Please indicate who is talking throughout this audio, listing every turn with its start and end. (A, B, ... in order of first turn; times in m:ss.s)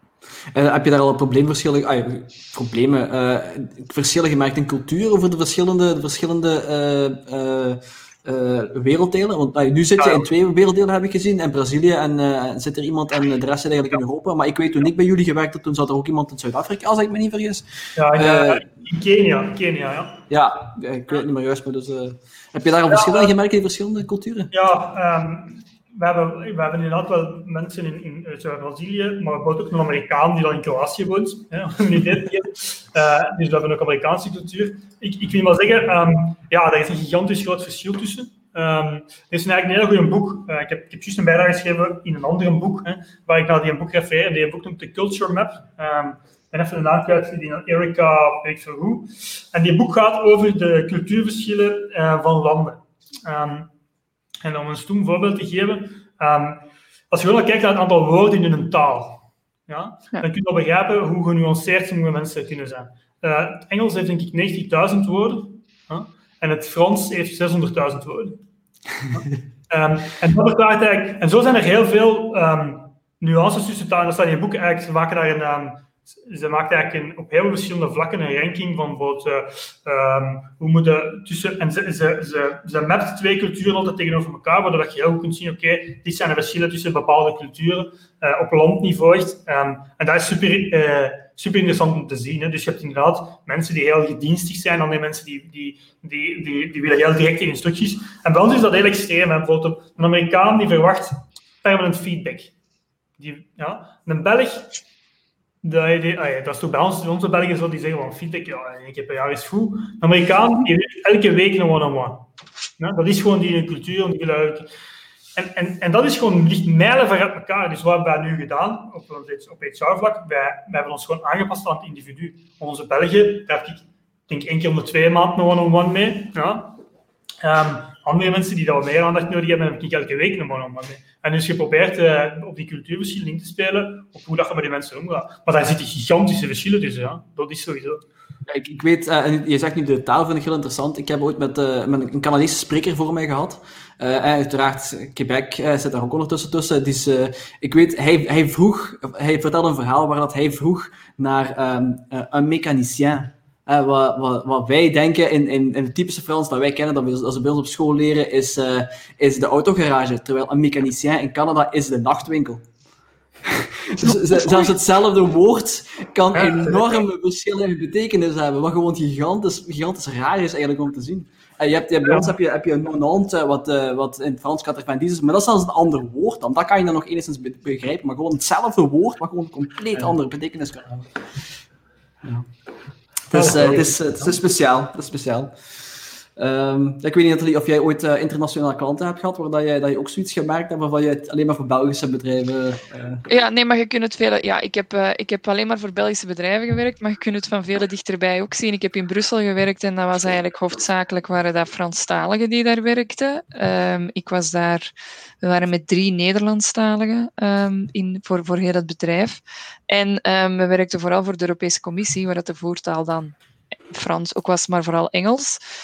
0:00.5-0:18.6 A
0:10.0-0:10.3 B
0:18.0-0:20.3 B
0:20.3-0:24.5 A
0:22.9-0:23.3 B
0:24.5-0:53.7 B
0:54.4-1:08.4 B
1:09.1-1:42.5 B
1:43.2-1:44.7 B
1:45.6-1:52.3 B
1:52.8-1:54.7 B
1:55.4-2:06.8 B
2:07.4-2:18.0 B
2:18.5-2:42.6 A
2:43.4-3:01.1 A
2:46.3-2:47.0 B
2:52.0-2:52.3 B
3:03.3-3:05.5 A
3:03.3-3:04.4 B
3:06.4-3:13.2 A
3:13.3-3:24.9 C
3:25.4-3:33.4 C
3:33.9-3:35.6 C